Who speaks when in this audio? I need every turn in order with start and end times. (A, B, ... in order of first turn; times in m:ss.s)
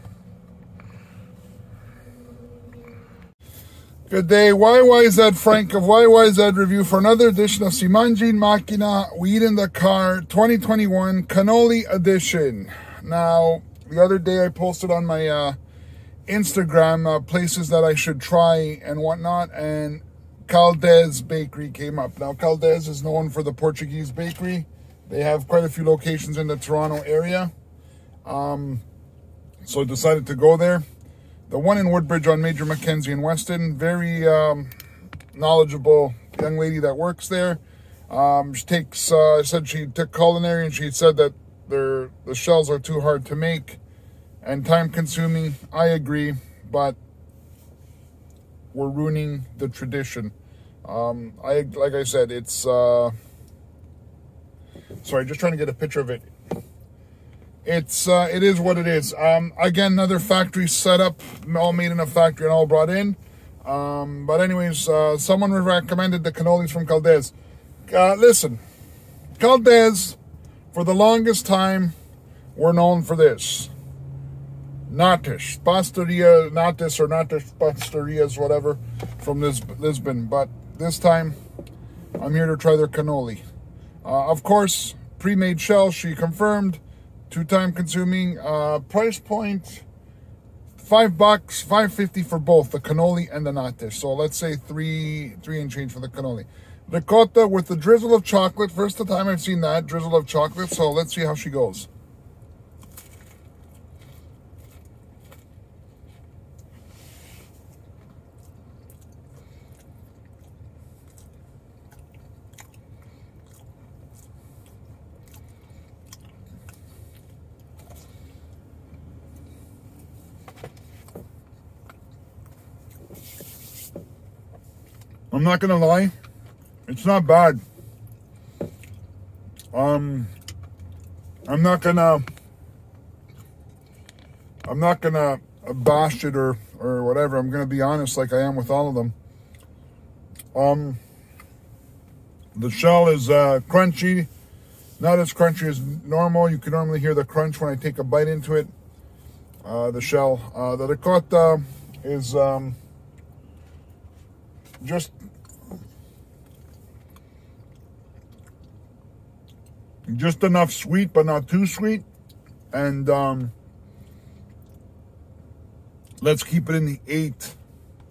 0:04.1-0:15.6 A
0:16.3-0:27.5 A
0:28.2-0:28.8 A
0:29.6-0:30.8 A
0:31.5-0:34.7 A
0:35.3-0:43.8 A
0:44.4-0:47.0 A
0:48.7-0:50.3 A
0:50.8-0:53.1 A
0:55.0-0:56.3 A
0:57.6-1:07.3 A
1:07.9-1:08.6 A
1:09.4-1:10.2 A
1:10.7-1:11.9 A
1:12.6-1:13.7 A
1:14.9-1:21.4 A
1:22.2-1:23.4 A
1:24.0-1:29.8 A
1:30.8-1:41.9 A
2:05.3-2:06.1 A
2:06.9-2:07.6 A
2:09.7-2:10.3 A
2:11.5-2:12.2 A
2:14.6-2:19.2 A
2:20.5-2:21.0 A
2:22.6-2:24.3 A
2:25.0-2:28.7 A
2:29.6-2:32.8 A
2:34.8-2:35.1 A
2:40.1-2:42.0 A
2:42.7-2:43.5 A
2:46.2-2:47.6 A